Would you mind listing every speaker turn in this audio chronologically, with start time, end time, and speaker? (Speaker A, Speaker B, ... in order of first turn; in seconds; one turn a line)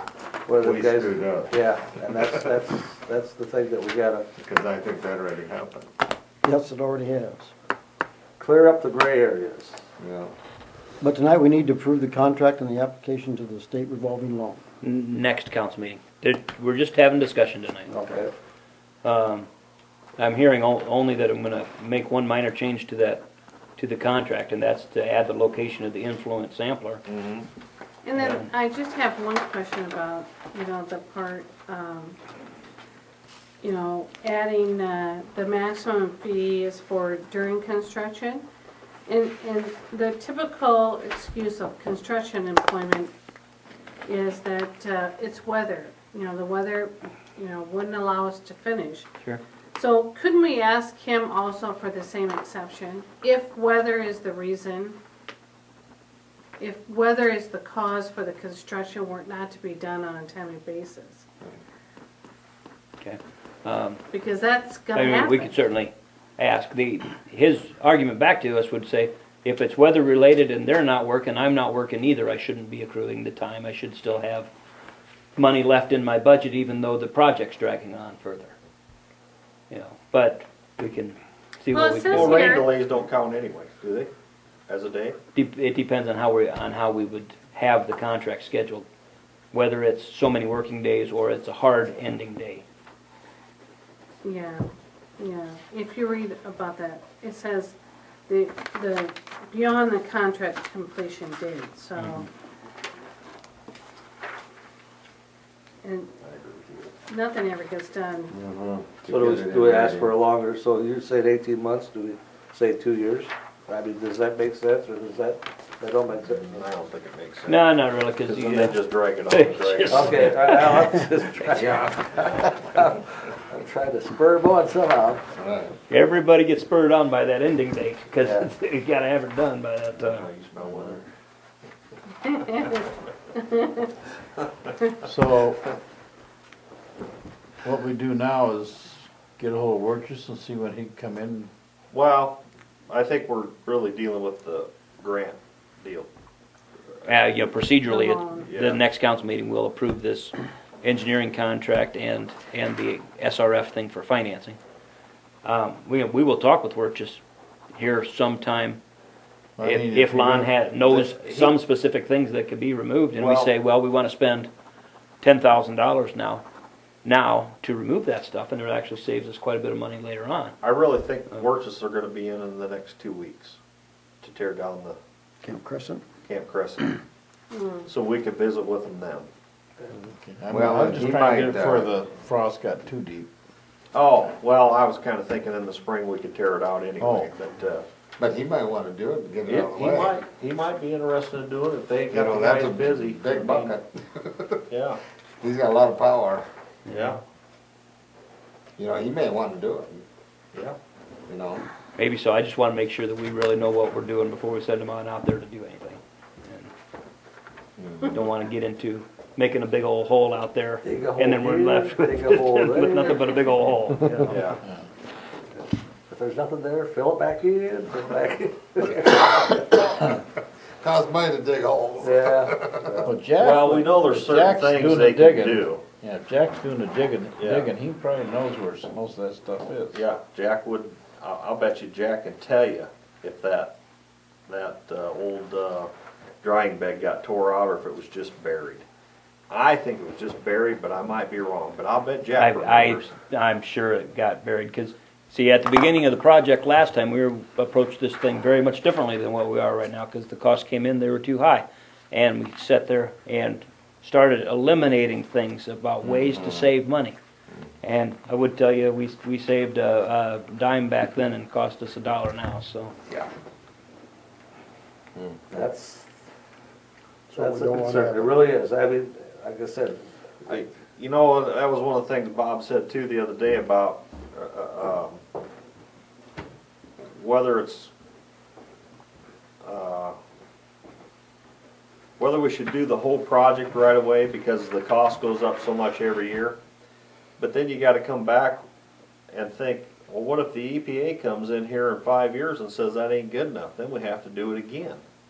Speaker A: 0.5-4.3
Speaker B: 0.6-1.5
Speaker B: 2.1-2.5
Speaker B: 4.4-5.9
Speaker C: 6.4-7.5
Speaker A: 8.4-9.8
Speaker B: 10.0-10.3
Speaker C: 11.0-14.6
Speaker D: 14.8-18.1
Speaker A: 17.9-18.3
Speaker D: 19.0-19.5
Speaker D: 20.2-23.2
Speaker D: 23.8-27.0
Speaker E: 27.1-27.5
Speaker F: 28.0-32.2
Speaker D: 28.1-28.5
Speaker F: 33.6-38.4
Speaker F: 39.1-43.1
Speaker F: 44.0-49.1
Speaker F: 49.7-55.0
Speaker F: 56.6-61.3
Speaker D: 63.0-64.0
Speaker F: 64.1-65.5
Speaker D: 64.9-74.5
Speaker D: 75.3-78.5
Speaker D: 79.7-82.6
Speaker F: 81.7-82.7
Speaker E: 82.1-84.1
Speaker E: 84.7-85.2
Speaker D: 85.3-88.8
Speaker D: 89.5-92.6
Speaker F: 94.2-94.7
Speaker F: 95.2-102.3
Speaker F: 105.8-106.1
Speaker E: 106.2-106.9
Speaker F: 107.1-108.3
Speaker B: 108.3-110.1
Speaker A: 109.1-116.6
Speaker E: 116.4-117.6
Speaker D: 117.4-121.1
Speaker E: 118.2-120.3
Speaker A: 119.9-125.2
Speaker B: 121.5-122.4
Speaker B: 125.3-125.7
Speaker D: 125.9-130.3
Speaker A: 128.2-128.5
Speaker E: 130.0-131.0
Speaker F: 132.2-132.8
Speaker F: 133.3-133.9
Speaker G: 135.0-135.6
Speaker G: 137.6-141.5
Speaker E: 141.9-146.1
Speaker D: 147.0-154.6
Speaker F: 147.9-148.5
Speaker E: 148.5-148.8
Speaker D: 155.4-157.2
Speaker D: 157.7-158.8
Speaker G: 159.6-160.5
Speaker D: 159.6-164.5
Speaker E: 160.8-161.5
Speaker E: 163.1-163.5
Speaker D: 165.2-166.4
Speaker D: 167.0-170.6
Speaker E: 170.6-173.6
Speaker E: 174.2-175.0
Speaker C: 175.4-176.0
Speaker E: 176.2-177.0
Speaker F: 177.5-177.9
Speaker E: 177.8-179.3
Speaker G: 179.9-183.3
Speaker B: 180.5-181.9
Speaker E: 183.9-187.8
Speaker G: 187.0-187.3
Speaker B: 188.2-190.2
Speaker E: 189.4-193.8
Speaker B: 192.1-194.6
Speaker E: 194.7-195.0
Speaker B: 195.4-196.4
Speaker D: 196.9-197.2
Speaker E: 196.9-197.2
Speaker B: 198.8-200.0
Speaker B: 201.3-201.6
Speaker D: 201.9-206.7
Speaker B: 207.8-208.2
Speaker D: 208.1-214.3
Speaker A: 210.8-213.4
Speaker A: 214.0-214.3
Speaker E: 214.2-214.6
Speaker G: 214.6-214.8
Speaker A: 216.1-219.4
Speaker B: 218.9-223.1
Speaker A: 222.0-223.2
Speaker G: 223.0-230.0
Speaker E: 223.4-225.8
Speaker E: 227.4-227.7
Speaker E: 229.9-233.7
Speaker E: 234.5-238.8
Speaker E: 239.5-243.1
Speaker D: 242.4-257.1
Speaker B: 256.0-256.7
Speaker D: 257.8-262.9
Speaker B: 265.1-265.4
Speaker A: 265.5-266.1
Speaker C: 267.3-268.4
Speaker A: 267.3-270.7
Speaker E: 270.5-275.2
Speaker E: 277.1-277.9
Speaker E: 279.6-280.2
Speaker E: 282.2-286.6
Speaker E: 287.4-288.6
Speaker E: 289.3-295.0